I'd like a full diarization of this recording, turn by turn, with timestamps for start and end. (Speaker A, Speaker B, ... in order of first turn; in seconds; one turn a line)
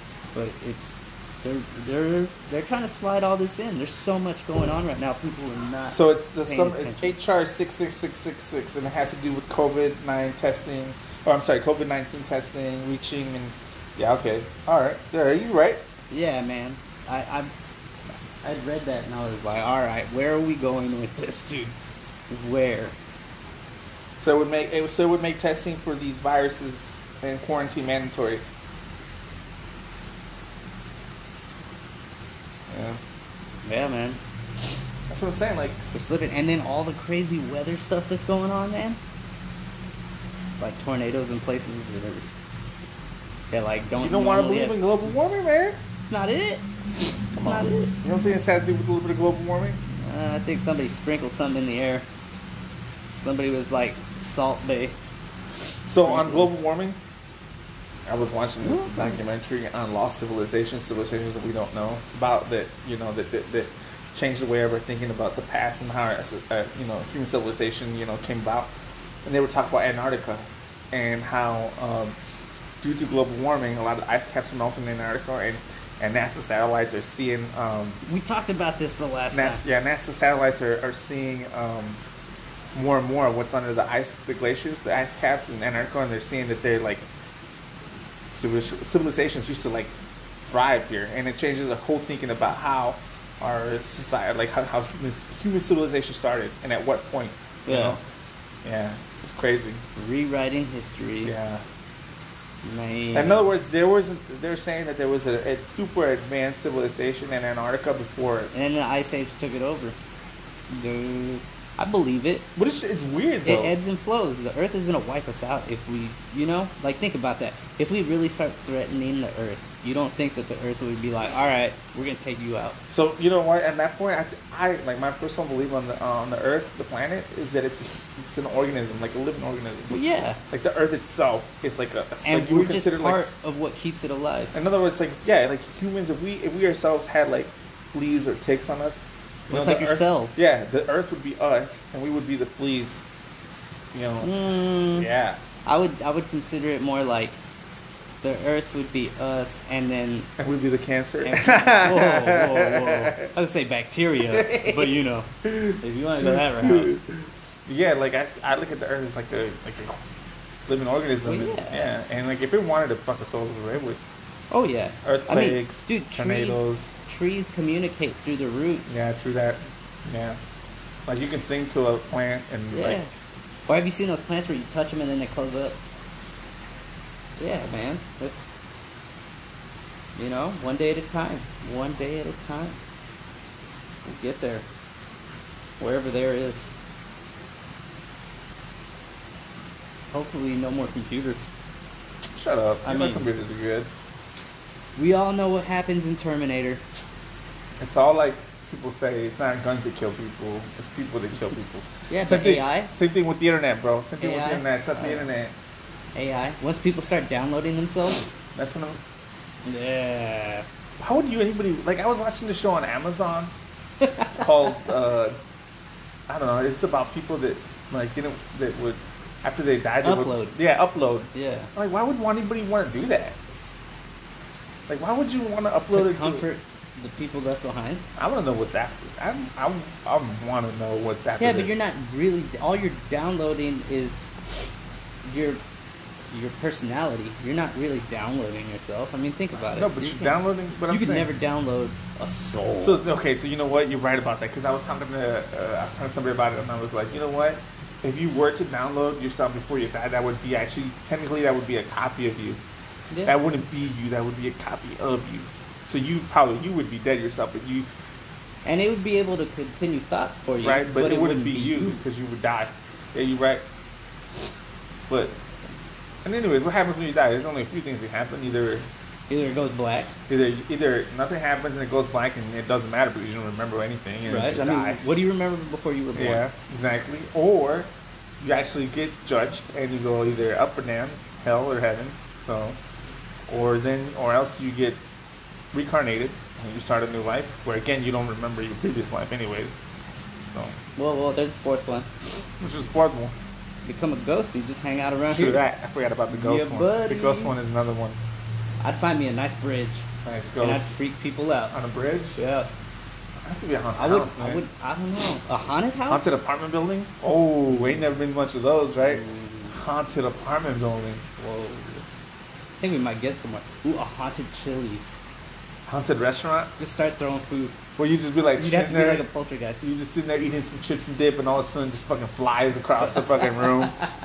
Speaker A: 0.3-7.2
Speaker B: 5.9-15.8
Speaker A: 16.1-17.5
Speaker A: 18.4-21.7
Speaker A: 22.3-22.9
Speaker B: 24.2-28.4
Speaker B: 32.7-33.0
Speaker A: 33.6-34.2
Speaker B: 35.1-35.8
Speaker A: 35.9-39.0
Speaker A: 40.6-42.3
Speaker A: 43.5-45.0
Speaker B: 44.0-45.8
Speaker A: 46.0-46.7
Speaker A: 47.3-47.9
Speaker B: 47.4-49.8
Speaker A: 50.0-52.0
Speaker A: 53.2-54.9
Speaker B: 55.9-57.0
Speaker A: 56.0-56.5
Speaker B: 58.1-68.7
Speaker A: 58.6-59.2
Speaker B: 69.2-72.1
Speaker B: 72.8-78.0
Speaker A: 78.0-79.6
Speaker B: 79.3-82.0
Speaker B: 82.7-87.0
Speaker B: 88.3-89.9
Speaker B: 90.5-98.0
Speaker A: 97.7-98.0
Speaker B: 98.6-99.8
Speaker A: 100.0-101.3
Speaker B: 101.2-101.6
Speaker A: 102.6-103.4
Speaker B: 103.1-108.5
Speaker A: 108.5-110.0
Speaker A: 110.7-112.5
Speaker B: 112.5-113.7
Speaker A: 113.4-122.8
Speaker B: 122.9-129.9
Speaker A: 129.9-130.4
Speaker B: 130.5-133.2
Speaker A: 132.2-134.5
Speaker B: 134.5-143.0
Speaker A: 139.5-140.4
Speaker B: 143.9-144.3
Speaker A: 144.2-145.1
Speaker B: 144.9-145.4
Speaker A: 145.6-147.4
Speaker A: 148.2-150.3
Speaker B: 150.4-153.3
Speaker A: 151.2-156.9
Speaker B: 154.2-160.0
Speaker B: 160.7-164.0
Speaker A: 161.2-161.9
Speaker A: 164.5-169.0
Speaker B: 165.0-166.9
Speaker B: 168.9-170.4
Speaker B: 171.1-173.0
Speaker A: 172.7-173.1
Speaker A: 173.7-175.8
Speaker A: 177.4-178.5
Speaker A: 180.2-182.8
Speaker A: 184.0-184.7
Speaker A: 185.8-186.7
Speaker A: 190.1-191.5
Speaker B: 192.3-193.9
Speaker A: 192.8-193.2
Speaker A: 194.9-196.8
Speaker B: 197.8-205.5
Speaker A: 202.1-202.9
Speaker A: 204.2-205.2
Speaker A: 206.1-208.3
Speaker B: 208.5-209.0
Speaker A: 209.6-210.6
Speaker B: 211.0-213.5
Speaker A: 214.0-214.4
Speaker B: 214.4-215.4
Speaker B: 216.3-223.4
Speaker A: 220.0-220.6
Speaker A: 221.3-221.7
Speaker B: 224.9-226.4
Speaker A: 225.9-228.0
Speaker B: 228.2-231.8
Speaker A: 231.4-234.2
Speaker A: 235.2-235.6
Speaker A: 236.3-243.0
Speaker B: 239.7-241.3
Speaker B: 242.8-252.6
Speaker B: 253.2-257.9
Speaker A: 258.6-262.0
Speaker B: 260.6-263.6
Speaker B: 265.1-265.4
Speaker B: 266.2-268.9
Speaker A: 269.3-270.1
Speaker B: 270.3-275.0
Speaker A: 274.2-276.4
Speaker B: 276.1-277.9
Speaker B: 278.4-282.8
Speaker B: 283.5-285.0
Speaker B: 285.7-289.8
Speaker B: 290.4-290.7
Speaker A: 290.9-292.1
Speaker B: 292.6-293.3
Speaker A: 293.8-295.6
Speaker B: 295.3-298.2
Speaker A: 296.3-297.5
Speaker A: 298.8-300.0
Speaker B: 300.2-300.9
Speaker A: 300.6-301.7
Speaker B: 301.7-302.4
Speaker A: 302.4-302.7
Speaker B: 303.4-304.6
Speaker A: 303.9-306.3
Speaker B: 306.1-311.2
Speaker A: 309.0-309.7
Speaker A: 311.4-312.0
Speaker A: 312.8-315.1
Speaker B: 315.9-316.7
Speaker A: 316.8-317.7
Speaker B: 318.0-319.2
Speaker A: 318.6-319.9
Speaker B: 319.8-323.9